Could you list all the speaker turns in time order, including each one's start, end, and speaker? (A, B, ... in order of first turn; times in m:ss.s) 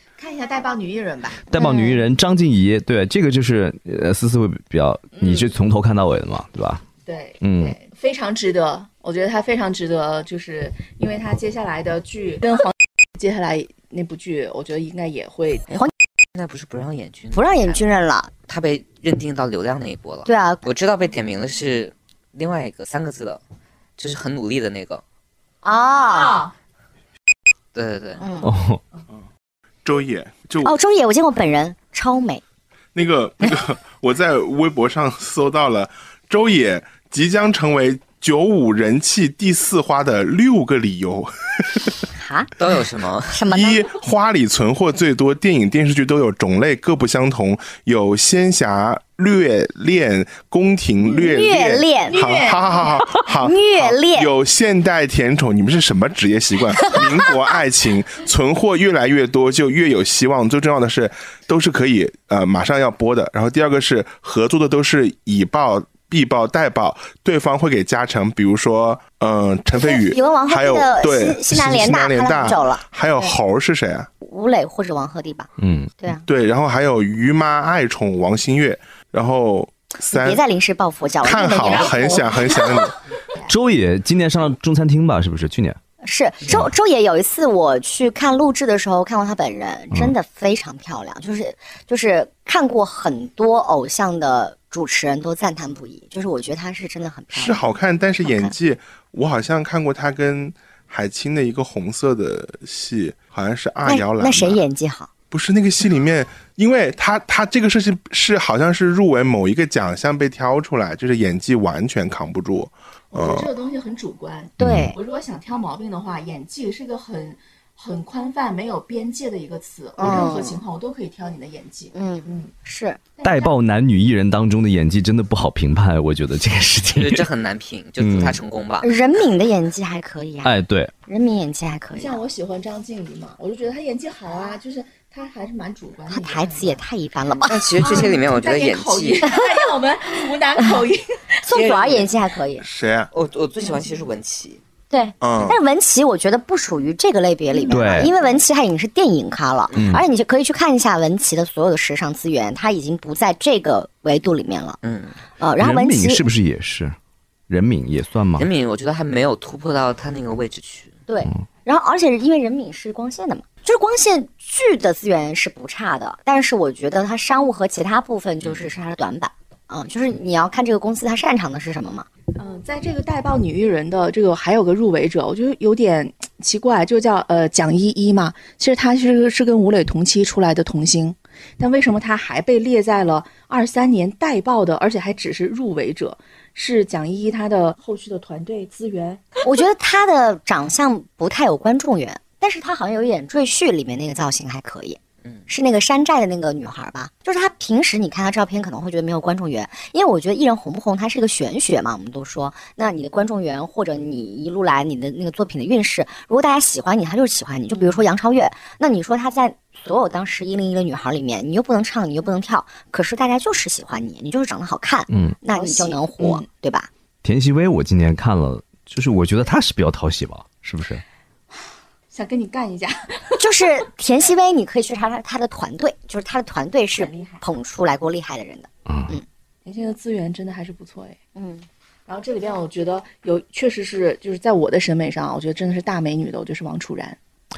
0:00.2-0:01.4 A
0:01.5-0:06.8 B
0:01.5-0:02.0 C
0:05.1-0:05.5 A
0:07.0-0:15.7 A
0:07.4-0:07.8 B
0:16.3-0:17.8 D
0:17.3-0:18.3 C
0:18.5-0:23.4 D
0:20.2-0:20.6 C
0:24.0-0:25.0 D
0:25.6-0:26.4 C
0:26.0-0:26.5 A
0:27.7-0:28.2 D
0:28.2-0:28.5 C
0:28.4-0:28.8 B
0:29.8-0:30.7 E
0:30.6-0:32.4 C
0:32.9-0:42.0 E
0:42.1-0:42.5 C
0:42.6-0:43.4 D
0:43.3-0:43.9 C
0:43.5-1:14.1 E
0:51.0-0:52.2 C
0:52.1-0:53.0 A
0:53.4-0:54.3 C
1:09.7-1:12.8 C
1:14.2-1:15.5 C
1:15.6-1:15.9 B
1:16.0-1:16.2 C
1:16.3-1:20.4 E
1:20.0-1:22.7 C
1:21.2-1:23.0 E
1:23.5-1:25.8 B
1:26.0-1:37.6 C
1:37.3-1:44.6 E
1:38.2-1:38.5 C
1:43.8-1:45.1 C
1:45.3-1:53.5 E
1:53.1-2:02.5 A
1:54.6-1:55.0 C
1:54.6-1:54.9 B
2:00.0-2:00.6 C
2:01.9-2:03.0 C
2:03.2-2:03.5 A
2:03.2-2:07.2 B
2:06.9-2:08.9 D
2:08.0-2:08.4 B
2:08.8-2:10.6 C
2:10.4-2:10.9 B
2:11.1-2:12.2 C
2:11.9-2:16.8 A
2:16.1-2:17.9 C
2:17.4-2:19.3 D
2:17.8-2:21.4 A
2:21.4-2:22.6 C
2:21.5-2:22.1 D
2:22.6-2:23.1 E
2:23.1-2:24.6 D
2:23.6-2:24.0 A
2:24.9-2:34.8 C
2:25.2-2:25.6 E
2:27.5-2:28.1 A
2:27.7-2:28.1 B
2:29.7-2:30.0 B
2:34.8-2:35.2 D
2:35.4-2:36.2 C
2:35.6-2:37.0 B
2:37.5-2:38.5 B
2:38.4-2:40.9 D
2:41.1-2:52.1 C
2:48.4-2:48.7 D
2:52.3-3:09.4 A
3:09.4-3:36.9 C
3:35.1-3:35.4 B
3:35.5-3:36.4 A
3:37.2-3:41.0 B
3:42.1-3:43.5 A
3:43.4-3:49.2 C
3:47.0-3:47.4 A
3:48.8-3:49.2 B
3:49.6-3:51.2 A
3:51.3-3:51.7 C
3:52.1-3:57.2 A